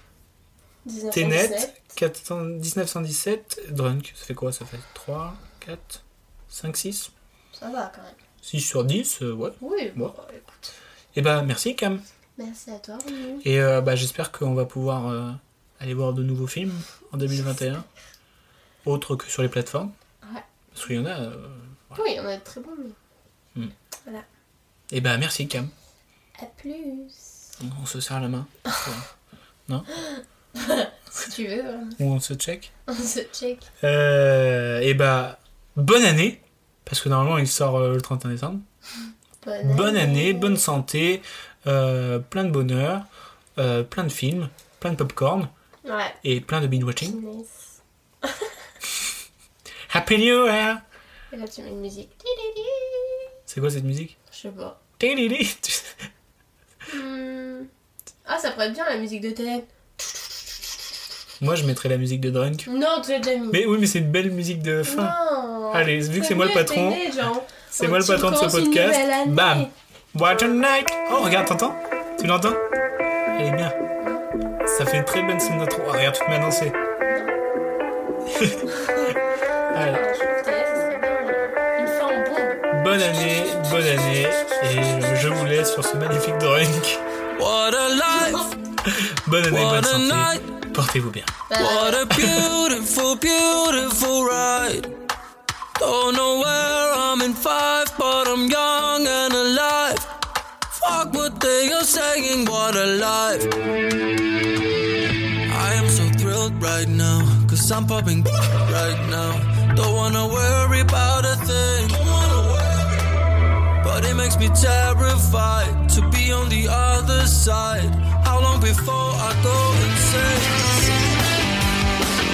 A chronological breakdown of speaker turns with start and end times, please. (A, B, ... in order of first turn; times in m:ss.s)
0:00.8-0:01.9 A
0:01.1-0:07.1 B
0:07.5-0:08.2 A
0:08.4-0:10.1 B
0:09.6-0:10.7 A
0:11.1-0:12.0 B
0:12.4-0:13.4 A
0:13.4-0:17.8 B
0:18.8-0:19.9 B
0:20.7-0:22.0 B
0:21.9-0:23.0 A
0:24.9-0:25.7 B
0:26.4-0:27.3 A
0:27.6-0:29.1 B
0:29.9-0:32.0 A
0:32.0-0:32.7 B
0:32.9-0:33.7 A
0:33.8-0:38.6 B
0:39.4-0:40.6 A
0:39.6-0:45.5 B
0:45.8-0:46.2 A
0:46.2-0:47.2 B
0:46.8-0:47.7 A
0:48.2-0:48.6 A
0:49.9-0:50.8 B
0:51.3-0:53.3 A
0:53.5-0:54.1 B
0:54.3-0:54.8 A
0:55.0-0:56.0 B
0:56.9-0:57.7 A
0:58.2-1:00.9 A
1:01.4-1:02.7 B
1:02.6-1:03.6 A
1:03.5-1:05.2 B
1:04.8-1:09.7 A
1:05.7-1:12.6 B
1:13.3-1:13.7 B
1:14.0-1:14.4 A
1:14.6-1:16.8 B
1:17.0-1:17.3 A
1:18.3-1:18.6 B
1:18.7-1:19.2 A
1:19.7-1:20.0 B
1:19.7-1:22.7 A
1:22.7-1:27.0 B
1:27.3-1:28.5 C
1:28.2-1:28.5 A
1:28.8-1:31.4 B
1:29.5-1:30.6 C
1:31.5-1:32.1 A
1:31.6-1:34.9 C
1:32.1-1:32.5 B
1:35.8-1:40.1 C
1:40.7-1:43.5 C
1:45.5-1:53.0 C
1:53.8-2:00.9 C